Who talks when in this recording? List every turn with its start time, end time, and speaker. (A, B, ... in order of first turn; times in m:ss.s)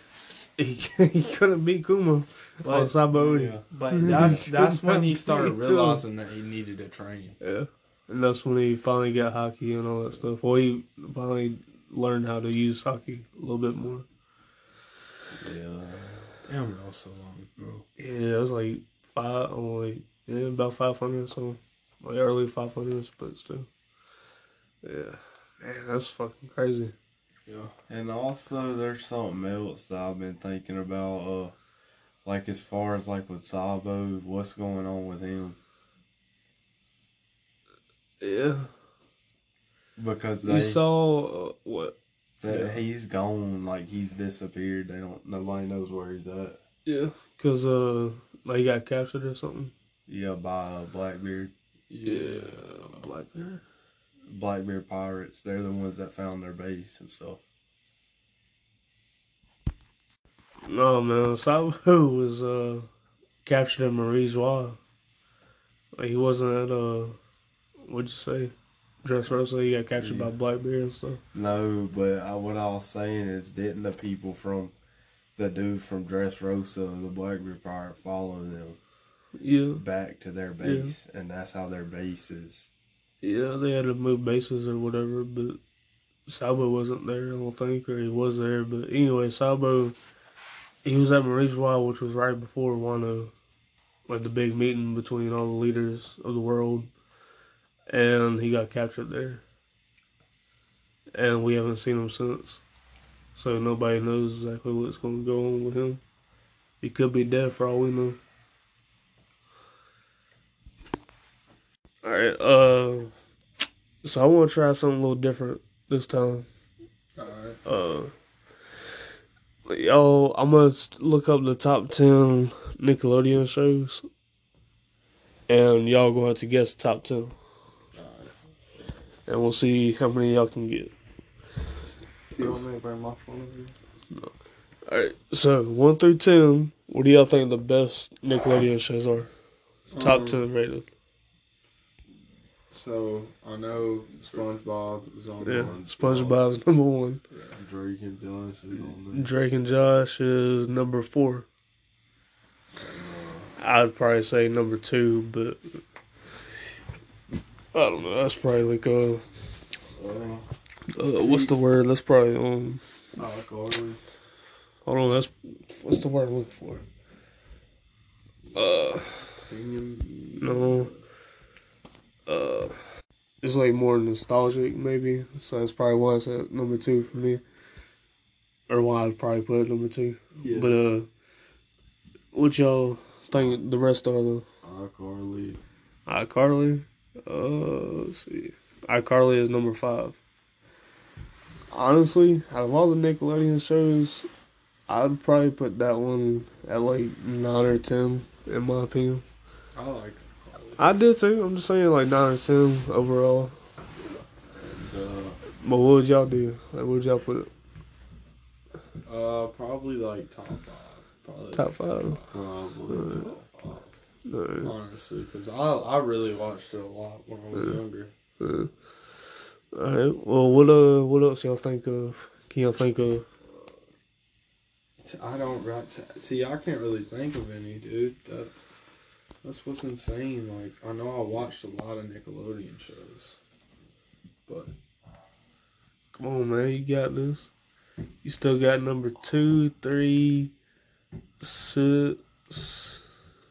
0:00.6-0:06.0 A
0:02.6-0:07.4 B
0:07.4-0:14.1 A
0:15.4-0:16.3 C
0:16.5-0:17.5 B
0:17.6-0:17.8 C
0:18.0-0:23.7 A
0:24.8-0:26.9 A
0:27.5-0:27.7 B
0:27.9-0:31.5 C
0:32.2-0:35.6 C
0:38.2-0:38.7 A
0:40.0-0:40.8 C
0:40.4-0:42.0 A
0:42.4-0:46.6 C
0:42.5-0:42.8 B
0:46.9-0:49.7 A
0:50.1-0:51.5 C
0:51.9-0:53.1 B
0:52.0-0:53.6 A
0:54.3-0:57.4 C
1:00.7-1:02.9 A
1:03.4-1:04.8 A
1:06.0-1:07.2 A
1:07.8-1:11.2 A
1:10.0-1:10.3 C
1:11.3-1:14.7 C
1:15.4-1:18.8 C
1:19.4-1:19.8 A
1:19.8-1:22.7 C
1:20.6-1:20.9 A
1:23.2-1:25.6 A
1:26.3-1:30.0 A
1:30.8-1:33.3 A
1:34.1-1:36.9 A
1:37.9-1:39.4 A
1:41.1-1:42.6 A
1:43.4-1:46.0 A
1:46.8-1:48.2 A
1:52.0-1:53.1 A
1:54.0-1:56.5 A
1:57.2-1:57.6 B
1:57.6-1:58.1 A
1:59.7-2:04.0 A
2:05.5-2:07.4 A
2:08.0-2:08.3 B
2:09.3-2:10.9 A
2:12.4-2:13.8 B
2:14.9-2:19.3 A
2:19.9-2:20.4 B
2:20.0-2:20.9 A
2:22.7-2:26.3 B
2:25.4-2:27.2 A
2:25.6-2:26.1 C
2:27.5-2:29.3 C
2:29.1-2:31.5 A
2:32.8-2:33.5 C
2:33.6-2:35.6 A
2:37.7-2:39.2 A
2:40.0-2:40.4 B
2:40.9-2:42.8 A
2:41.2-2:41.5 B
2:43.2-2:44.0 B
2:44.9-2:46.8 A
2:48.6-2:49.3 A
2:49.5-2:51.0 B
2:50.4-2:50.9 A
2:52.3-2:52.8 A
2:53.4-2:57.4 A
2:58.7-3:01.1 A
3:00.4-3:00.7 B
3:02.3-3:04.5 A
3:04.6-3:05.6 C
3:06.1-3:10.2 A
3:11.7-3:14.3 A
3:14.9-3:19.2 A
3:19.8-3:21.0 B
3:20.8-3:23.6 A
3:24.6-3:25.4 C
3:25.6-3:27.5 A
3:29.1-3:33.9 B
3:31.6-3:32.2 A
3:32.3-3:33.2 C
3:32.9-3:33.3 A
3:34.3-3:34.7 A
3:34.6-3:38.1 B
3:38.4-3:38.7 A
3:39.7-3:43.3 A
3:45.0-3:48.5 B
3:49.4-3:53.4 B
3:54.5-3:54.7 B
3:56.2-3:57.5 A
3:58.2-4:00.5 A
4:01.4-4:03.0 A